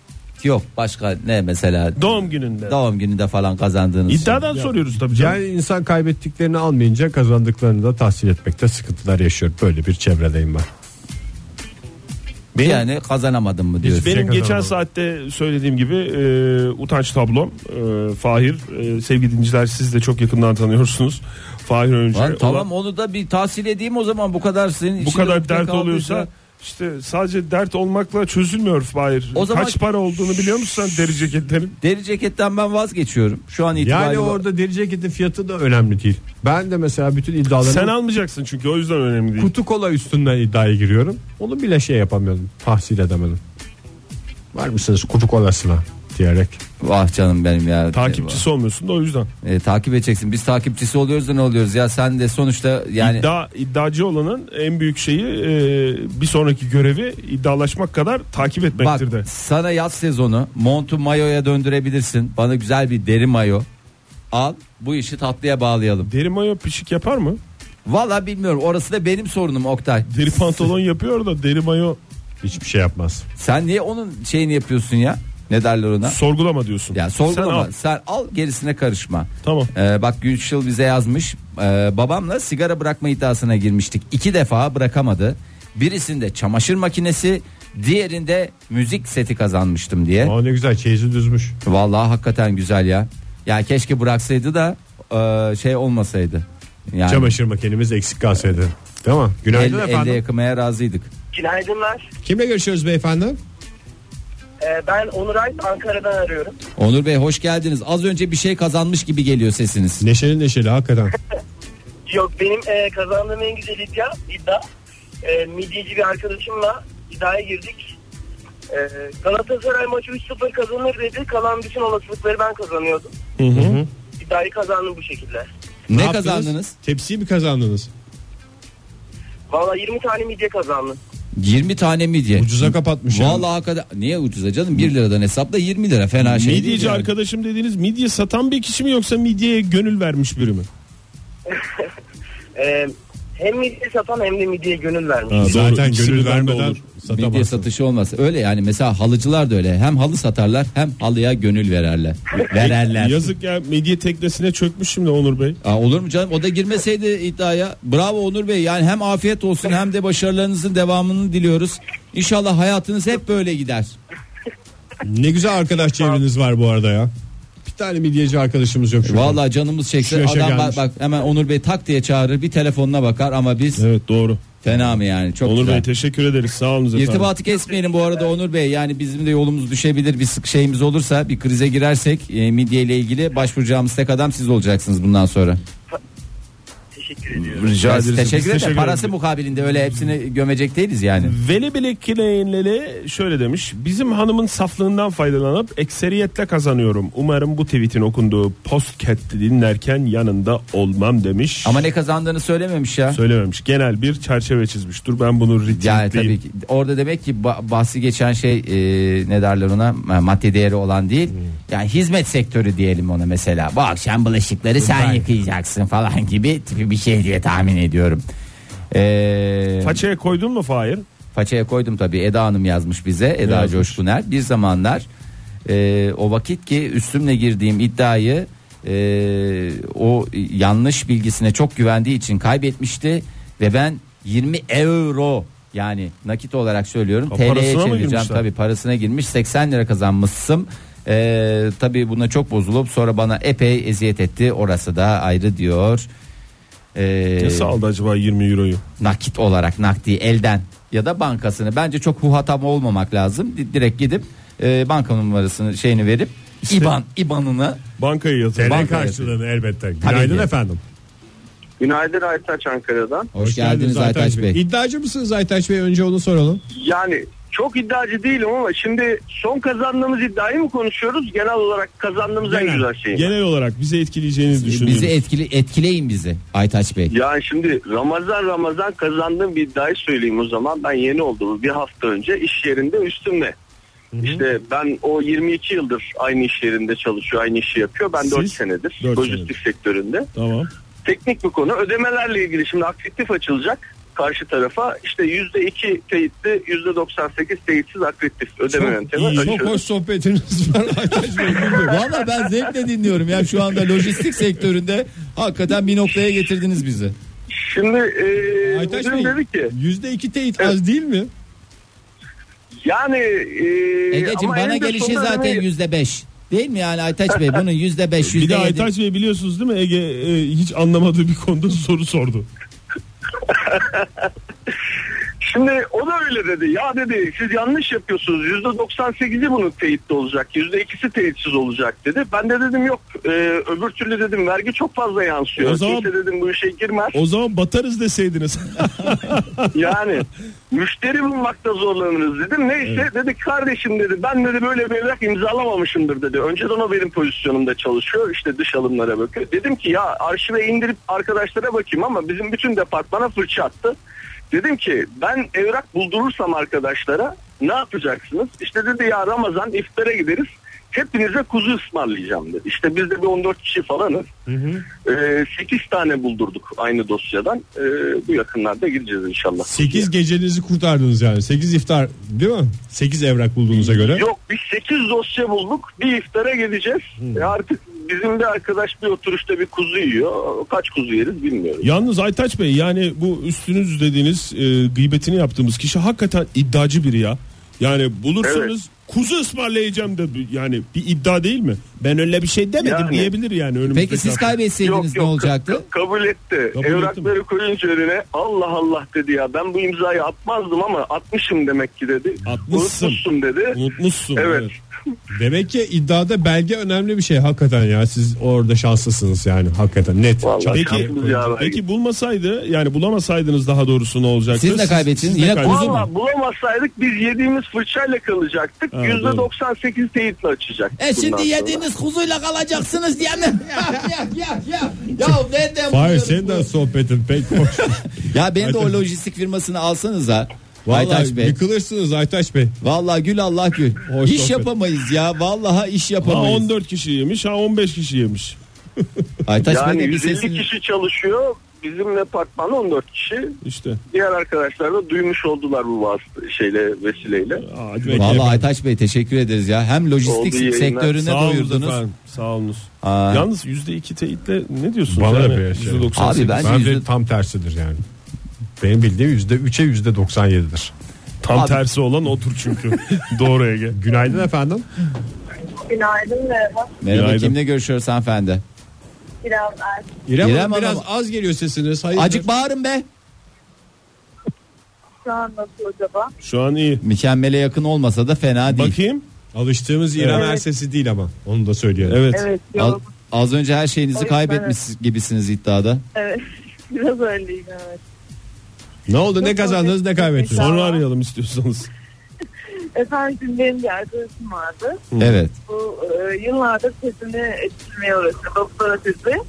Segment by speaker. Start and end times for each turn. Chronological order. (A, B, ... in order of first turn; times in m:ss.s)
0:00.4-0:04.4 A
0:02.0-0:02.8 B
0:04.1-0:05.4 B
0:04.5-0:10.7 C
0:12.5-0:12.8 B
0:12.6-0:14.1 A
0:13.8-0:22.7 B
0:13.9-0:14.7 C
0:22.1-0:26.3 A
0:25.0-0:31.7 B
0:29.3-0:29.8 A
0:31.8-0:34.4 A
0:33.7-0:37.9 C
0:37.6-0:39.5 B
0:39.4-0:43.4 C
0:44.5-0:46.6 C
0:46.8-0:48.4 A
0:47.9-0:49.3 B
0:49.4-0:53.3 A
0:53.0-0:59.3 B
0:58.8-1:03.7 A
1:04.3-1:06.1 A
1:06.1-1:07.4 B
1:07.8-1:10.1 A
1:10.1-1:12.0 B
1:12.4-1:13.2 C
1:13.4-1:16.2 A
1:16.0-1:17.7 B
1:16.9-1:30.3 A
1:19.4-1:19.7 B
1:30.2-1:31.6 C
1:31.6-1:37.3 A
1:37.0-1:40.2 C
1:39.5-1:41.1 A
1:41.3-1:42.0 D
1:42.2-1:43.4 C
1:44.6-1:46.6 D
1:46.8-1:50.0 A
1:50.0-1:51.1 C
1:52.1-1:54.6 D
1:55.2-1:57.9 D
1:58.7-2:03.1 D
2:03.4-2:03.8 B
2:03.5-2:03.9 C
2:04.2-2:05.5 D
2:05.9-2:06.7 A
2:05.9-2:07.9 C
2:09.5-2:11.0 D
2:11.3-2:17.1 A
2:12.3-2:13.5 C
2:16.2-2:20.7 B
2:21.5-2:21.8 D
2:22.6-2:25.5 D
2:25.3-2:26.8 B
2:25.4-2:27.7 C
2:27.0-2:33.3 A
2:32.5-2:35.6 B
2:35.6-2:43.9 A
2:45.0-2:47.1 C
2:47.6-2:49.4 C
2:49.0-2:53.8 A
2:50.0-2:50.8 C
2:53.8-2:54.4 B
2:54.6-2:55.8 A
2:55.4-2:57.3 B
2:56.9-3:05.6 A
3:06.9-3:07.8 D
3:07.4-3:11.3 A
3:07.7-3:09.1 B
3:11.2-3:21.8 B
3:21.6-3:23.2 A
3:23.1-3:26.4 B
3:25.7-3:38.2 A
3:34.8-3:35.4 C
3:38.9-3:40.0 A
3:39.8-3:41.0 B
3:41.3-3:45.1 A
3:43.4-3:44.0 B
3:45.6-4:06.1 A
3:57.3-3:58.4 B
4:06.9-4:07.7 A
4:07.4-4:08.8 B
4:09.0-4:17.8 A
4:16.7-4:16.9 B
4:18.0-4:19.0 B
4:18.6-4:20.8 C
4:18.6-4:19.3 A
4:20.0-4:20.5 A
4:21.8-4:23.3 E
4:23.3-4:24.6 A
4:23.4-4:26.6 C
4:26.7-4:33.3 E
4:32.4-4:32.8 C
4:33.1-4:35.2 B
4:34.6-4:37.1 A
4:37.1-4:43.5 E
4:44.1-4:44.4 C
4:44.2-4:50.3 E
4:48.2-4:49.5 B
4:50.4-4:50.7 B
4:51.0-4:59.8 E
4:58.7-5:02.0 C
4:58.8-4:59.8 B
5:01.8-5:07.1 A
5:07.5-5:09.7 E
5:08.6-5:11.3 C
5:12.8-5:15.6 E
5:14.1-5:18.9 A
5:18.2-5:22.5 B
5:23.5-5:24.1 E
5:25.4-5:37.2 E
5:35.6-5:36.1 B
5:37.1-5:39.6 B
5:39.7-5:54.0 E
5:54.5-6:04.3 E
6:04.5-6:04.8 C
6:05.0-6:10.1 E
6:09.6-6:14.2 C
6:14.1-6:21.9 E
6:17.2-6:17.5 C
6:21.8-6:34.6 B
6:28.4-6:28.7 E
6:32.8-6:33.3 E
6:33.9-6:35.8 A
6:34.8-6:43.8 E
6:36.7-6:37.3 B
6:42.4-6:44.7 B
6:44.3-6:44.8 E
6:45.3-6:51.5 C
6:50.4-6:51.8 E
6:50.7-6:56.1 B
6:54.5-6:56.0 A
6:55.6-7:01.8 E
6:58.9-6:59.5 B
7:01.0-7:06.7 A
7:05.9-7:09.0 C
7:08.2-7:11.6 A
7:10.8-7:12.8 C
7:12.8-7:16.6 A
7:14.0-7:14.7 C
7:16.2-7:18.6 B
7:19.4-7:20.6 A
7:19.6-7:23.6 E
7:23.6-7:24.0 B
7:24.1-7:27.6 E
7:27.6-7:28.6 B
7:28.0-7:28.6 C
7:28.2-7:32.0 A
7:30.2-7:31.1 E
7:31.2-7:36.7 B
7:33.0-7:33.5 A
7:35.1-7:38.0 C
7:36.2-7:37.0 A
7:38.8-7:40.9 C
7:41.4-7:44.0 B
7:41.5-7:41.8 A
7:43.9-7:44.8 C
7:45.8-7:46.9 F
7:47.0-7:48.6 A
7:47.1-7:47.6 B
7:49.4-7:50.1 F
7:50.3-7:52.5 C
7:50.4-7:51.0 A
7:52.1-7:53.0 A
7:55.2-7:56.3 F
7:56.4-7:57.0 B
7:57.0-7:59.0 A
7:58.7-7:59.2 B
7:59.5-8:02.2 C
8:00.2-8:00.5 B
8:00.3-8:00.6 F
8:02.0-8:02.5 B
8:02.3-8:03.1 F
8:02.7-8:06.0 A
8:04.1-8:04.8 F
8:06.1-8:08.0 F
8:09.1-8:10.7 C
8:09.4-8:11.0 F
8:10.5-8:11.9 B
8:12.9-8:15.0 F
8:15.1-8:15.4 B
8:15.2-8:15.5 A
8:15.6-8:19.4 F